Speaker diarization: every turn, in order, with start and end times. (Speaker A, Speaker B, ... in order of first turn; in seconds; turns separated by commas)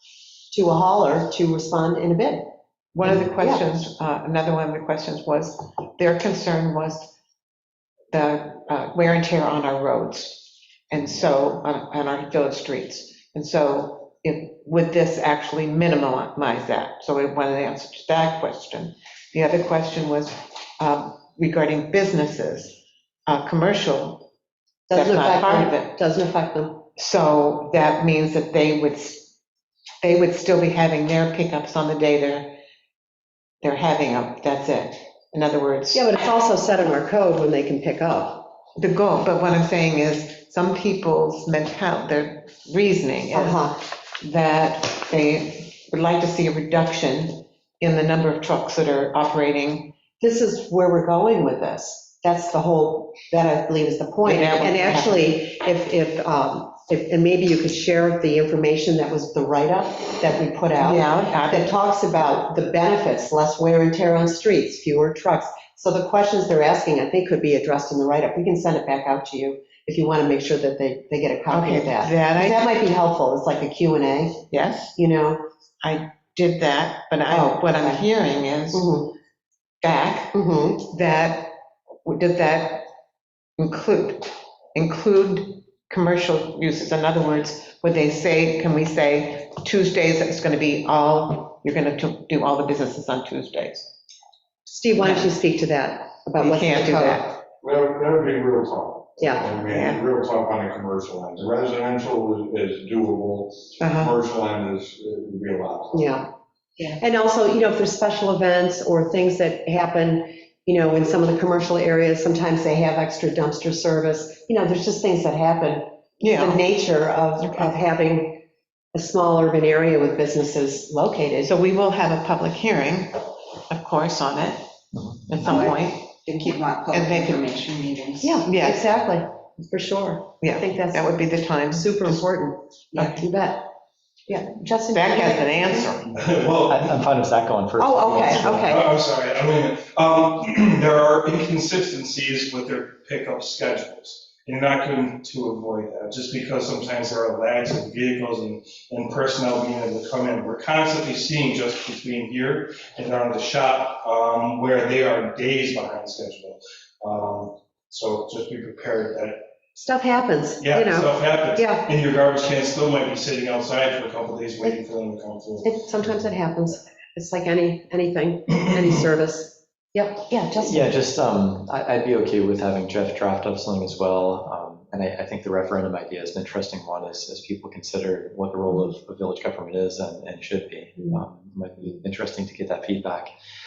Speaker A: 0.5-2.5, Speaker B: 2.9-7.1, Speaker A: 3.4-3.6, Speaker B: 8.1-24.3, Speaker A: 24.9-26.8, Speaker B: 24.9-25.9, Speaker B: 26.9-29.3, Speaker B: 30.0-32.6, Speaker B: 33.6-36.2, Speaker A: 35.9-38.5, Speaker B: 38.8-50.0, Speaker A: 43.3-43.8, Speaker A: 50.2-75.4, Speaker B: 54.2-55.4, Speaker B: 60.8-61.7, Speaker B: 71.5-72.7, Speaker B: 74.5-75.0, Speaker B: 75.8-78.9, Speaker A: 77.3-78.0, Speaker A: 78.7-79.1, Speaker B: 79.8-82.9, Speaker A: 80.3-80.8, Speaker B: 83.6-93.9, Speaker A: 94.7-97.3, Speaker B: 96.4-97.4, Speaker C: 97.6-106.1, Speaker A: 99.2-99.5, Speaker B: 99.7-100.0, Speaker B: 103.8-104.2, Speaker A: 105.9-106.3, Speaker A: 107.0-118.4, Speaker B: 116.2-116.6, Speaker B: 117.4-117.8, Speaker A: 118.9-121.5, Speaker B: 121.4-124.6, Speaker D: 124.9-125.3, Speaker B: 125.3-126.1, Speaker E: 125.4-128.3, Speaker B: 126.9-127.6, Speaker A: 128.2-133.7, Speaker B: 128.4-128.8, Speaker B: 130.4-132.2, Speaker E: 132.9-133.2, Speaker A: 134.3-135.9, Speaker B: 134.9-136.1, Speaker F: 136.1-136.9, Speaker D: 136.6-138.8, Speaker A: 137.8-138.9, Speaker F: 138.2-159.4, Speaker A: 159.8-161.9, Speaker F: 160.6-165.7, Speaker A: 165.6-170.9, Speaker D: 170.5-183.3